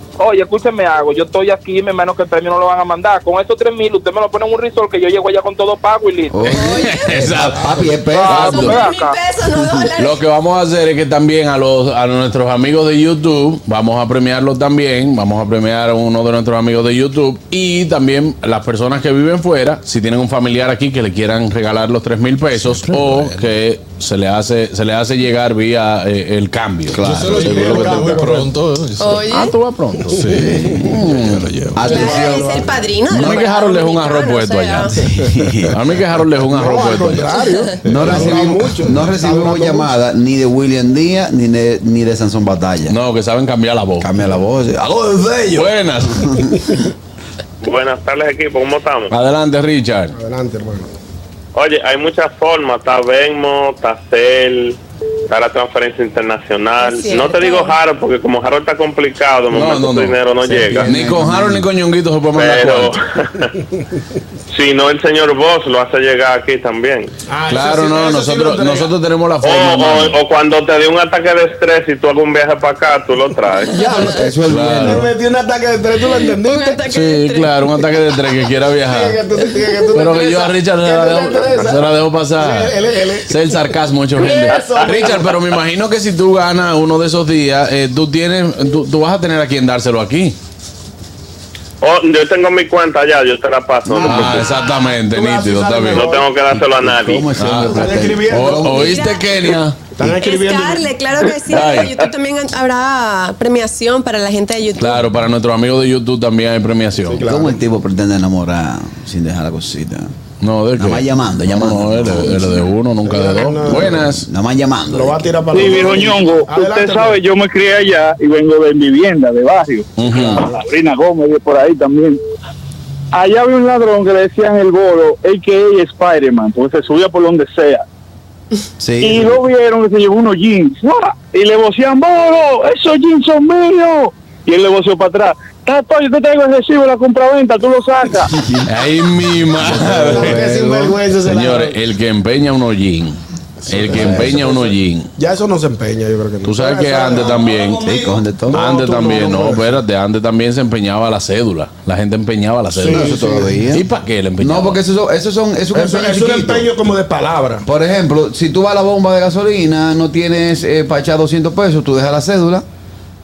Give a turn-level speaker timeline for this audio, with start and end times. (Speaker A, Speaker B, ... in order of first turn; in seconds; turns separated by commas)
Speaker A: 0.2-6.4, Speaker B: 6.3-8.8, Speaker C: 6.5-7.3, Speaker D: 6.5-8.8, Speaker A: 8.2-9.2, Speaker C: 8.2-10.2, Speaker D: 10.0-27.1, Speaker E: 22.6-23.5, Speaker B: 26.9-28.2, Speaker E: 27.0-29.4, Speaker F: 27.2-28.5, Speaker C: 29.0-29.6, Speaker D: 29.3-31.5, Speaker E: 30.1-31.9, Speaker B: 30.3-31.0, Speaker B: 31.7-33.4, Speaker F: 31.8-32.7, Speaker C: 31.8-34.9, Speaker D: 33.1-35.0, Speaker B: 35.0-35.8, Speaker D: 35.7-37.4, Speaker F: 36.5-39.9, Speaker E: 37.9-38.5, Speaker B: 37.9-43.0, Speaker D: 42.9-44.1, Speaker B: 44.0-46.7, Speaker D: 45.5-46.6, Speaker G: 47.6-49.1, Speaker D: 49.1-50.1, Speaker F: 50.1-50.9, Speaker G: 51.6-54.8, Speaker G: 55.3-60.9, Speaker C: 56.8-57.8, Speaker D: 59.5-60.2, Speaker B: 60.5-61.7, Speaker D: 60.7-63.0, Speaker G: 62.3-63.5, Speaker G: 64.5-67.1, Speaker F: 67.3-68.9, Speaker D: 67.5-70.2, Speaker G: 69.4-73.8, Speaker F: 73.7-76.8, Speaker B: 74.0-75.1, Speaker D: 74.4-75.1, Speaker C: 76.1-77.7, Speaker D: 76.9-79.2, Speaker F: 78.9-83.5, Speaker D: 79.9-82.8, Speaker D: 83.3-90.4, Speaker F: 84.2-85.4, Speaker G: 91.8-94.6, Speaker B: 93.9-94.4, Speaker D: 94.0-96.1, Speaker F: 94.6-96.3, Speaker G: 95.9-97.3, Speaker B: 96.5-99.1, Speaker D: 97.3-99.8, Speaker F: 97.7-98.8, Speaker C: 98.7-99.4, Speaker F: 100.0-100.9, Speaker C: 100.0-105.0, Speaker D: 101.5-102.0, Speaker D: 104.8-107.2, Speaker F: 107.0-107.6, Speaker B: 107.2-110.1, Speaker D: 110.4-114.3, Speaker B: 110.8-112.6, Speaker F: 113.0-114.1, Speaker B: 113.7-116.0, Speaker F: 114.9-117.2, Speaker H: 115.5-122.2, Speaker D: 120.0-120.5, Speaker H: 123.1-127.8, Speaker B: 128.8-129.4, Speaker H: 129.0-138.3, Speaker B: 138.3-138.7, Speaker D: 138.7-145.1, Speaker B: 139.6-140.9, Speaker F: 139.7-141.8, Speaker F: 143.7-149.8, Speaker B: 143.9-144.4, Speaker D: 146.4-147.9, Speaker B: 147.8-148.6, Speaker D: 148.5-153.2, Speaker F: 152.7-153.6, Speaker B: 152.8-153.9, Speaker D: 153.7-154.8, Speaker B: 154.4-156.7, Speaker F: 155.7-157.7, Speaker B: 157.6-162.7